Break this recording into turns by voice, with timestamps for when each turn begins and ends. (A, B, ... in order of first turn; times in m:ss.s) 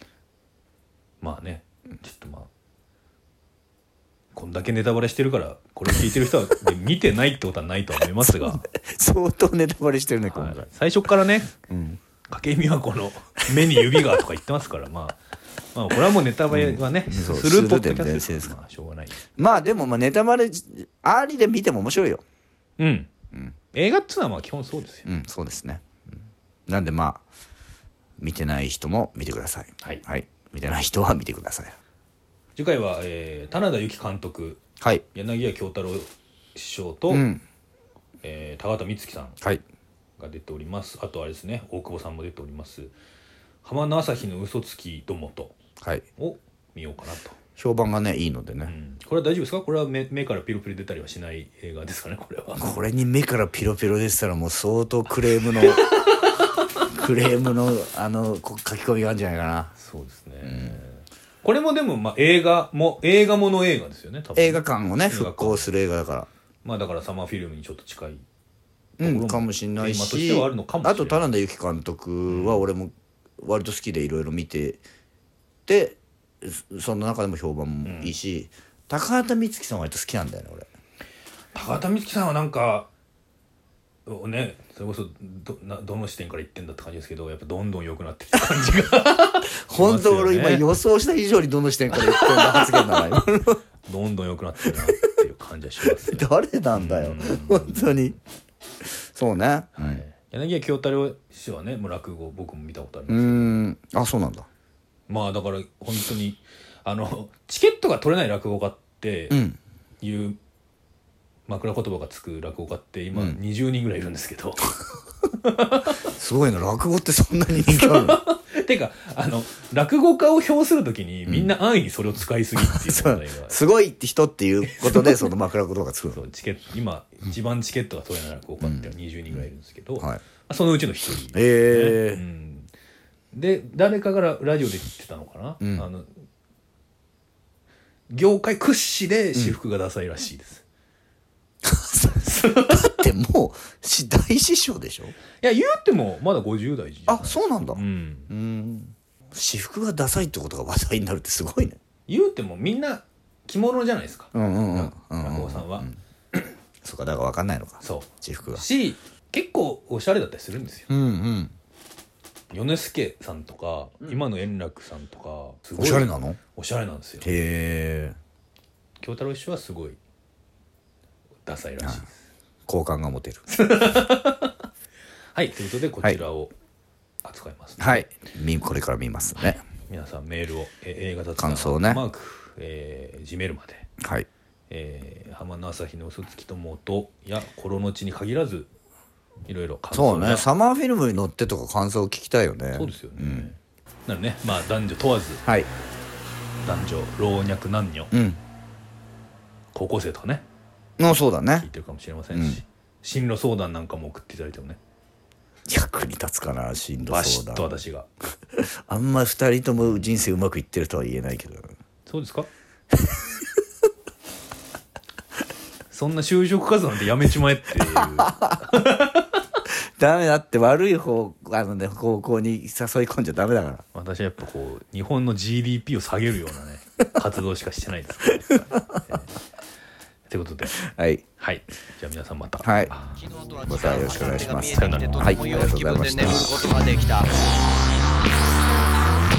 0:01.2-0:02.5 A
0:04.4-0:08.6 A
0:08.2-0:10.7 B
0:10.3-0:11.5 A
0:11.7-0:12.0 B
0:12.3-0:15.2 A
0:13.8-0:14.0 B
0:15.7-0:19.2 A
0:16.5-0:18.6 B
0:19.4-0:22.2 B
0:22.8-0:23.1 A
0:23.7-0:25.1 A
0:25.1-0:25.8 B
0:26.7-0:27.2 B
0:28.2-0:31.8 B
0:32.6-0:34.6 A
0:35.1-0:37.3 A
0:37.1-0:37.4 B
0:38.2-0:39.4 A
0:40.2-0:42.9 A
0:43.6-0:45.6 A
0:46.2-0:47.4 A
0:47.6-0:48.7 B
0:48.6-0:52.8 A
0:52.6-0:56.0 B
0:55.6-0:56.2 A
0:56.8-0:59.7 B
0:59.8-1:05.7 A
1:00.4-1:00.8 B
1:04.4-1:06.3 B
1:06.6-1:08.2 A
1:09.0-1:11.2 A
1:09.0-1:14.8 B
1:12.3-1:12.6 A
1:15.7-1:20.7 B
1:17.8-1:18.1 A
1:21.5-1:22.9 A
1:24.1-1:30.7 A
1:29.7-1:33.6 B
1:31.9-1:33.0 A
1:33.8-1:37.9 A
1:35.8-1:38.2 B
1:38.8-1:40.0 B
1:39.8-1:43.6 A
1:43.1-1:44.5 B
1:45.1-1:49.4 A
1:49.3-1:49.6 B
1:50.0-1:50.4 A
1:51.5-1:54.8 A
1:55.4-1:56.0 A
1:56.1-1:58.2 B
1:57.7-2:03.6 A
2:02.6-2:06.2 B
2:04.6-2:05.3 A
2:06.1-2:12.7 A
2:08.6-2:09.4 B
2:11.3-2:12.2 B
2:13.3-2:16.1 A
2:15.6-2:15.9 B
2:18.1-2:20.6 A
2:21.6-2:25.2 B
2:22.2-2:23.0 A
2:25.4-2:28.3 A
2:27.1-2:31.8 B
2:32.1-2:35.9 A
2:34.3-2:38.6 B
2:37.8-2:40.9 A
2:40.9-2:41.5 B
2:42.5-2:47.3 A
2:45.8-2:46.4 B
2:47.2-2:48.2 B
2:49.0-2:50.0 A
2:51.5-2:52.2 A
2:52.7-2:53.4 B
2:53.5-2:54.6 A
2:55.4-2:56.5 A
2:57.2-2:58.1 A
2:57.8-2:59.6 B
2:59.8-3:03.9 A
3:01.4-3:02.0 B
3:04.0-3:04.3 B
3:04.7-3:08.7 A
3:09.5-3:10.5 A
3:09.9-3:13.5 B
3:12.7-3:15.4 A
3:16.6-3:18.1 A
3:18.1-3:18.4 B
3:19.7-3:20.4 A
3:21.0-3:21.7 B
3:21.6-3:24.8 A
3:22.3-3:22.6 B
3:25.7-3:27.8 B
3:27.1-3:28.1 A
3:28.6-3:31.8 B
3:32.1-3:32.5 A
3:32.9-3:33.4 B
3:35.9-3:39.3 A
3:38.2-3:38.8 B
3:40.0-3:43.8 B
3:43.9-3:49.3 A
3:50.3-3:50.8 A
3:50.8-3:51.2 B
3:51.4-3:53.2 A
3:52.6-3:52.9 B
3:53.2-3:57.4 C
3:53.6-3:56.6 B
3:54.7-3:55.4 A